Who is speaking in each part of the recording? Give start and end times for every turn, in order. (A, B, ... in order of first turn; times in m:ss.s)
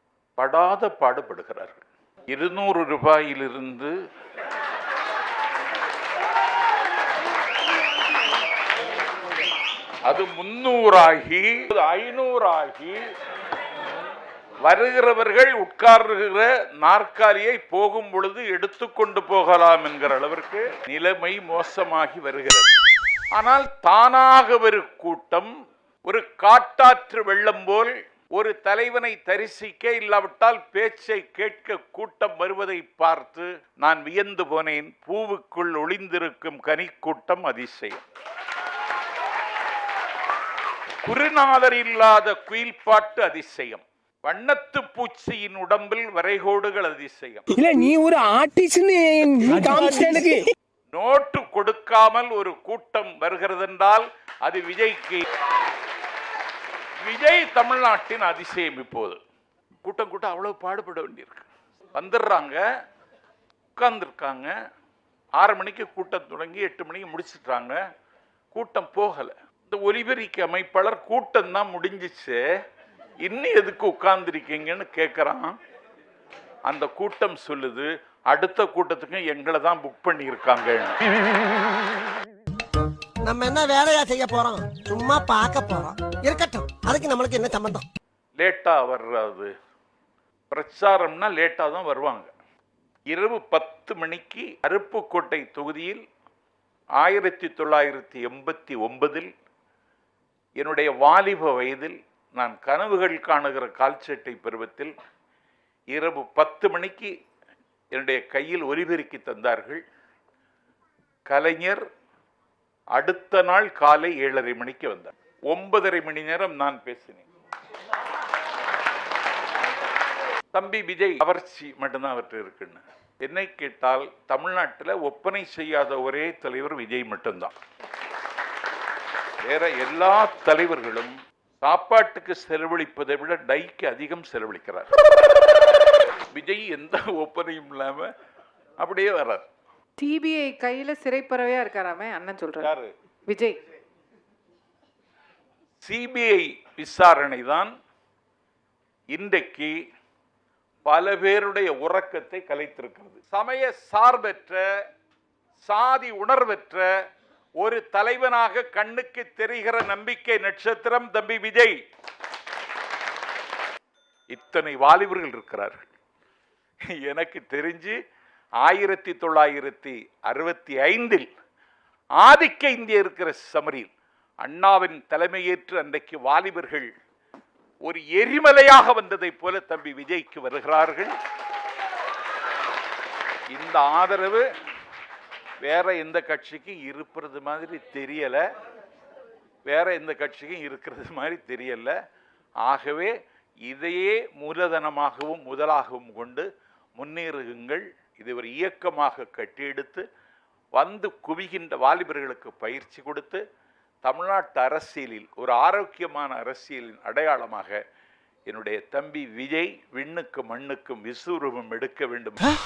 0:00.4-0:03.9 A
0:10.0-0:13.0 A
0:14.6-0:22.7 A
0:23.3-0:25.5 A
0:26.0-0:38.0 A
0:41.0-0:47.5 A
0:47.5-0:50.4 B
0:50.9-0:55.2 A
0:57.0-0:59.2 A
0:59.8-1:02.6 A
1:03.8-1:04.5 A
1:05.4-1:07.8 A
1:08.5-1:12.4 A
1:13.2-1:15.5 A
1:16.7-1:21.0 A
1:23.2-1:27.8 C
1:28.4-1:29.5 A
1:30.5-1:32.3 A
1:33.1-1:36.0 A
1:37.0-1:39.3 A
1:40.6-1:44.9 A
1:45.9-1:47.1 A
1:47.9-1:49.8 A
1:51.3-1:51.8 A
1:53.0-1:57.2 A
2:00.5-2:07.5 A
2:09.4-2:14.9 A
2:16.3-2:18.1 A
2:18.8-2:19.4 A
2:20.0-2:22.7 D
2:22.6-2:22.9 A
2:23.3-2:23.6 D
2:25.8-2:27.7 A
2:29.1-2:29.7 A
2:30.8-2:34.6 A
2:35.6-2:36.9 A
2:37.6-2:41.8 A
2:44.3-2:45.8 A
2:46.9-2:48.0 A
2:48.6-2:51.2 A
2:52.2-2:53.9 A
2:54.4-2:56.9 A
2:57.8-3:01.1 A
3:03.5-3:04.4 A
3:05.6-3:08.4 A
3:09.6-3:11.9 A
3:12.6-3:13.1 A
3:13.6-3:16.4 A
3:17.0-3:20.0 A
3:20.7-3:23.4 A
3:24.0-3:27.8 A
3:28.5-3:32.4 A